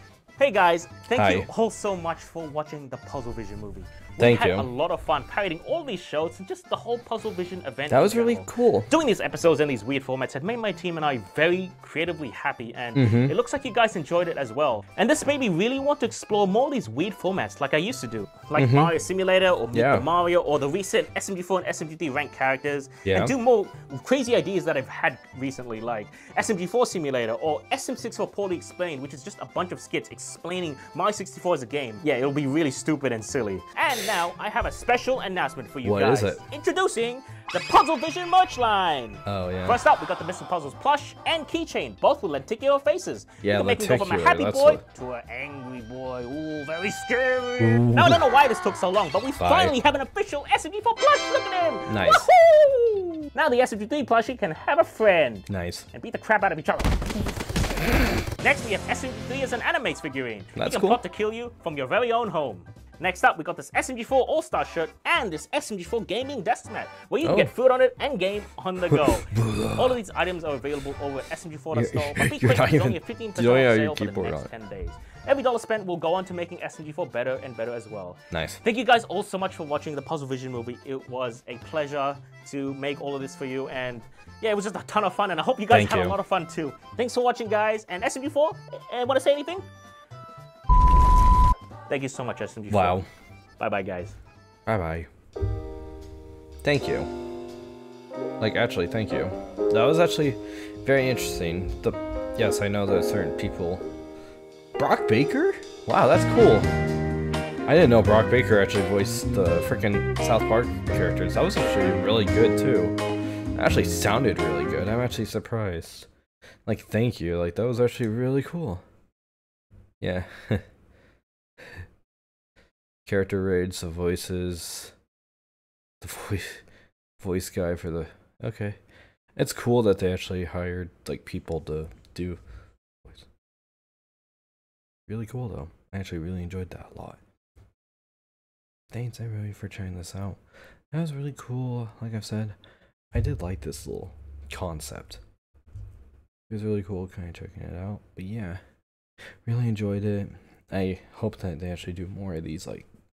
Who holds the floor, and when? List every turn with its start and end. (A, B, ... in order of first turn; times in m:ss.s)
0:00.4-0:57.0 A
0:01.1-0:01.5 B
0:04.2-0:04.7 B
0:07.9-0:08.9 B
0:13.0-0:13.4 B
0:18.6-0:18.9 B
0:19.7-0:20.1 B
0:23.0-0:23.3 B
0:35.8-0:36.4 B
0:39.2-0:39.8 B
0:43.4-0:44.8 B
0:47.6-0:48.3 B
0:49.4-0:49.8 B
0:51.9-0:52.3 B
0:55.5-0:55.9 B
0:58.4-1:29.7 A
1:00.6-1:01.0 B
1:07.2-1:07.5 B
1:08.9-1:10.0 B
1:11.7-1:14.5 B
1:18.3-1:18.6 B
1:25.7-1:26.2 B
1:31.9-1:33.0 A
1:32.7-1:33.1 B
1:33.6-1:34.1 A
1:34.7-1:35.1 B
1:36.6-1:37.1 B
1:38.4-1:43.8 B
1:44.8-1:46.7 B
1:47.7-1:53.0 B
1:53.6-1:56.1 B
1:56.7-1:58.8 B
2:00.0-2:00.6 B
2:03.1-2:04.9 B
2:06.0-2:06.6 B
2:07.2-2:08.8 B
2:09.4-2:12.4 B
2:15.1-2:17.2 B
2:18.9-2:20.4 B
2:20.9-2:22.6 B
2:23.1-2:25.2 B
2:26.5-2:28.6 B
2:29.4-2:32.9 B